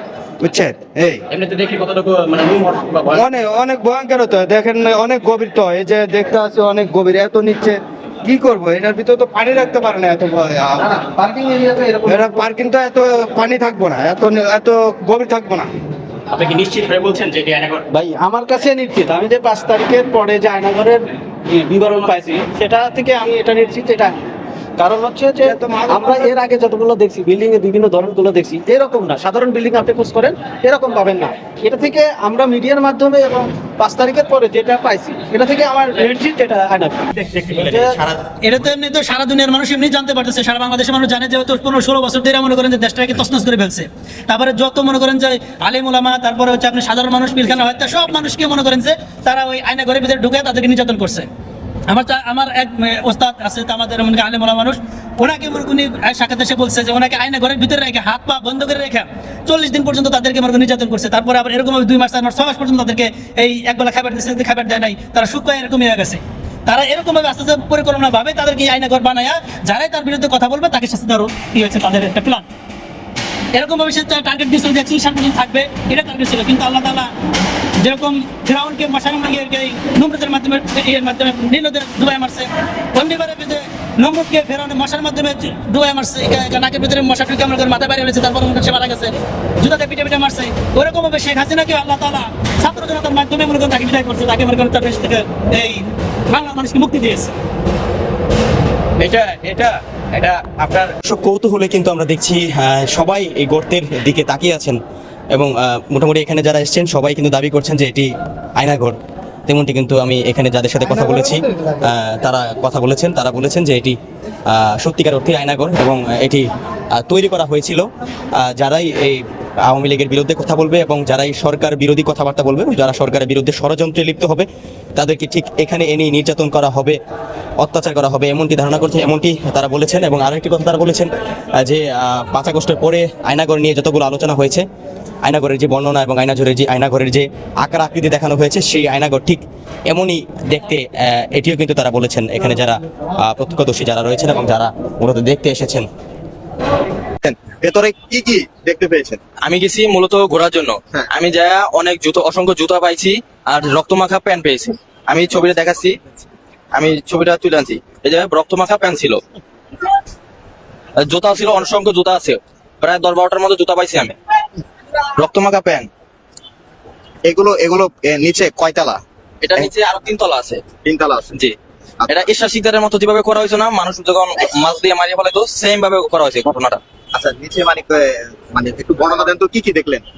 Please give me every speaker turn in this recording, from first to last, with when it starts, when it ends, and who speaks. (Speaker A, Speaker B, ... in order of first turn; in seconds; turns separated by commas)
Speaker A: 0.4-1.2, Speaker B: 1.3-3.2, Speaker A: 3.1-11.0, Speaker C: 11.0-12.5, Speaker A: 12.0-15.7, Speaker B: 16.3-17.8, Speaker D: 16.7-17.0, Speaker C: 17.9-24.1, Speaker C: 24.8-38.0, Speaker A: 25.4-26.3, Speaker E: 38.4-51.3, Speaker E: 51.9-72.4, Speaker E: 73.5-77.1, Speaker E: 77.8-97.3, Speaker B: 99.0-104.8, Speaker B: 105.3-111.3, Speaker D: 111.8-112.8, Speaker B: 112.2-114.0, Speaker B: 114.5-117.9, Speaker B: 118.4-127.0, Speaker B: 127.6-134.6, Speaker B: 135.2-145.9, Speaker F: 147.2-149.2, Speaker D: 149.4-155.9, Speaker D: 156.7-159.2, Speaker D: 161.0-164.1, Speaker D: 165.2-165.8, Speaker F: 167.2-169.0, Speaker D: 169.4-170.6, Speaker F: 170.8-171.3, Speaker D: 172.1-176.8, Speaker F: 177.1-180.0